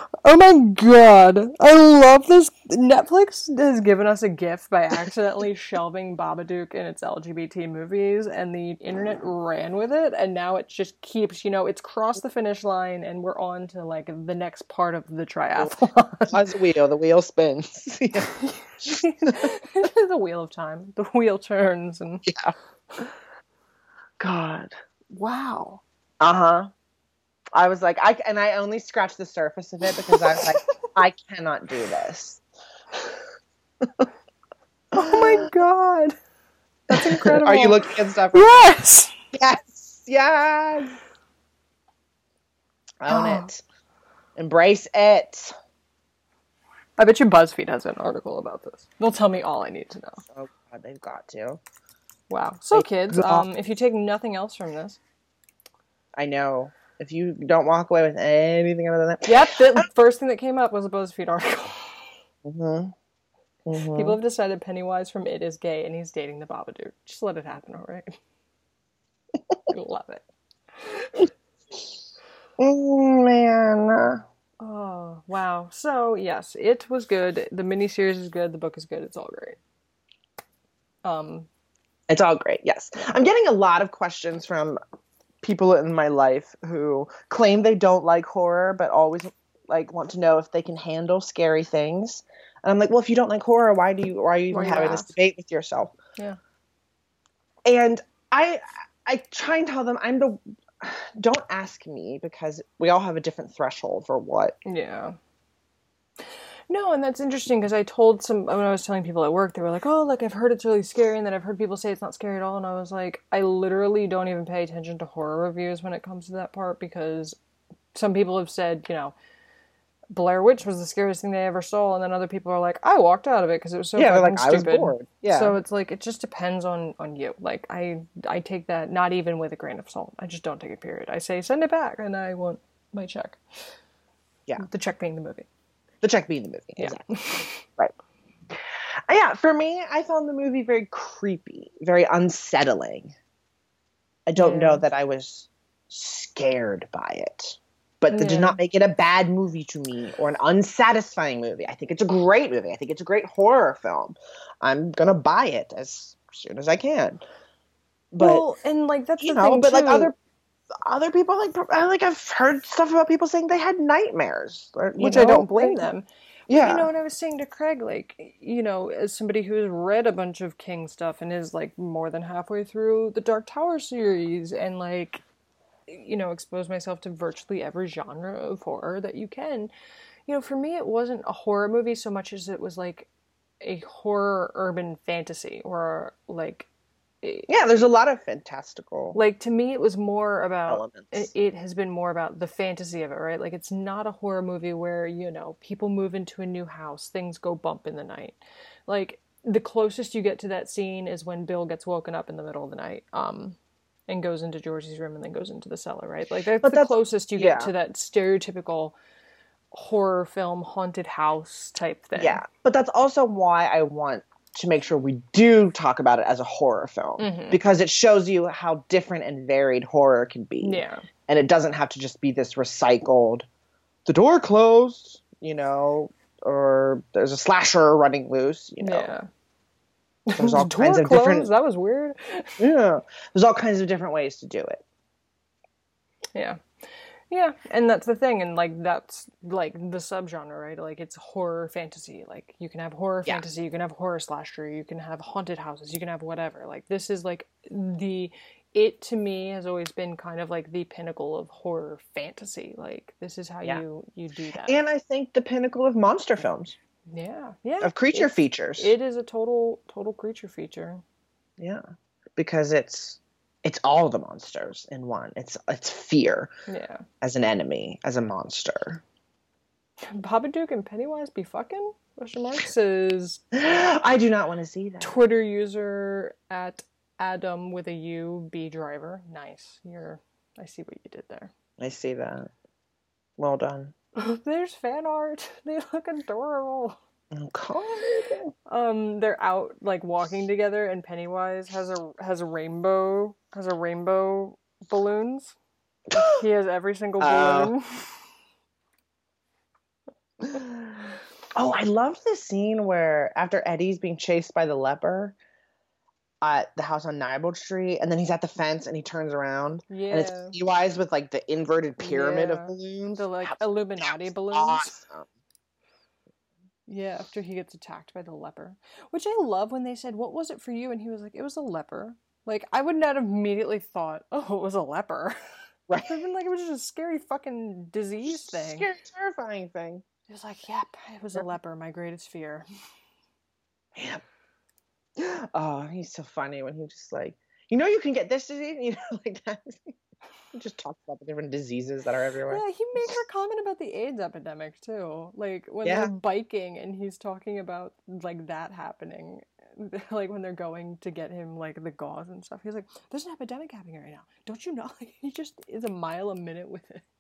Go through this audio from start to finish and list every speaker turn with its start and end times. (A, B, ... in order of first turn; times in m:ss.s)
0:00.2-0:16.4 A
0:16.3-0:18.3 B
0:18.2-0:22.3 A
0:18.8-0:19.5 B
0:22.3-0:22.5 B
0:24.2-0:24.7 B
0:25.1-0:25.8 A
0:26.2-0:26.7 B
0:27.6-0:32.4 B
0:30.1-0:30.6 A
0:33.8-0:34.1 B
0:34.9-0:36.2 A
0:34.9-0:35.5 B
0:36.9-0:39.1 A
0:36.9-0:38.7 B
0:39.3-0:41.0 B
0:43.0-0:43.6 B
0:43.1-0:43.5 A
0:44.4-0:45.5 B
0:47.0-0:50.2 A
0:50.3-0:51.6 B
0:52.3-0:55.0 A
0:52.7-0:53.5 B
0:56.2-0:59.9 B
0:59.3-1:02.1 A
1:02.4-1:02.9 B
1:03.7-1:04.2 B
1:03.8-1:08.2 A
1:09.7-1:10.2 A
1:10.8-1:11.3 A
1:12.6-1:14.2 B
1:14.6-1:19.6 A
1:21.0-1:21.5 A
1:22.1-1:24.8 B
1:25.4-1:35.9 B
1:34.5-1:35.1 A
1:37.6-1:44.6 B
1:44.6-1:45.2 A
1:46.7-1:57.4 A
1:57.9-1:59.1 A
2:00.1-2:13.4 A
2:04.0-2:05.6 B
2:14.6-2:15.5 A
2:16.0-2:17.0 B
2:16.8-2:17.6 A
2:18.5-2:23.1 B
2:24.3-2:37.2 B
2:24.4-2:24.8 A
2:28.1-2:28.6 A
2:38.1-2:38.4 B
2:38.2-2:40.1 A
2:39.2-2:40.2 B
2:40.8-2:45.9 B
2:45.0-2:55.2 A
2:46.5-2:46.9 B
2:55.9-2:59.7 A
3:00.3-3:03.1 A
3:03.6-3:06.7 A
3:07.2-3:07.9 A
3:07.5-3:09.2 B
3:09.1-3:29.0 A
3:10.7-3:11.3 B
3:26.6-3:27.7 B
3:29.7-3:32.4 A
3:32.2-3:43.5 B
3:37.2-3:37.6 A
3:40.6-3:41.0 A
3:44.1-3:49.1 B
3:48.8-3:49.3 A
3:50.3-3:52.6 A
3:50.4-3:51.5 B
3:52.6-3:54.8 B
3:56.4-3:56.6 A
3:57.3-4:14.8 A
4:14.6-4:16.8 B
4:17.1-4:21.0 A
4:17.8-4:18.9 B
4:22.4-4:26.5 B
4:26.7-4:27.0 A
4:27.2-4:29.0 B
4:30.1-4:33.4 A
4:33.5-4:35.2 B
4:35.0-4:41.5 A
4:41.8-4:42.5 B
4:43.4-4:43.9 B
4:44.2-4:47.0 A
4:47.3-4:48.5 B
4:48.7-4:55.6 A
4:56.1-4:56.4 B
4:56.1-4:58.2 A
4:57.2-4:57.7 B
5:00.4-5:00.7 B
5:01.6-5:05.4 B
5:06.4-5:15.3 B
5:09.9-5:10.6 A
5:12.0-5:15.0 A
5:16.9-5:25.4 A
5:26.0-5:28.9 A
5:28.3-5:30.0 B
5:30.3-5:32.6 A
5:34.0-5:34.2 B
5:35.2-5:40.0 B
5:40.5-5:43.1 B
5:42.5-5:57.0 A
5:45.8-5:46.1 B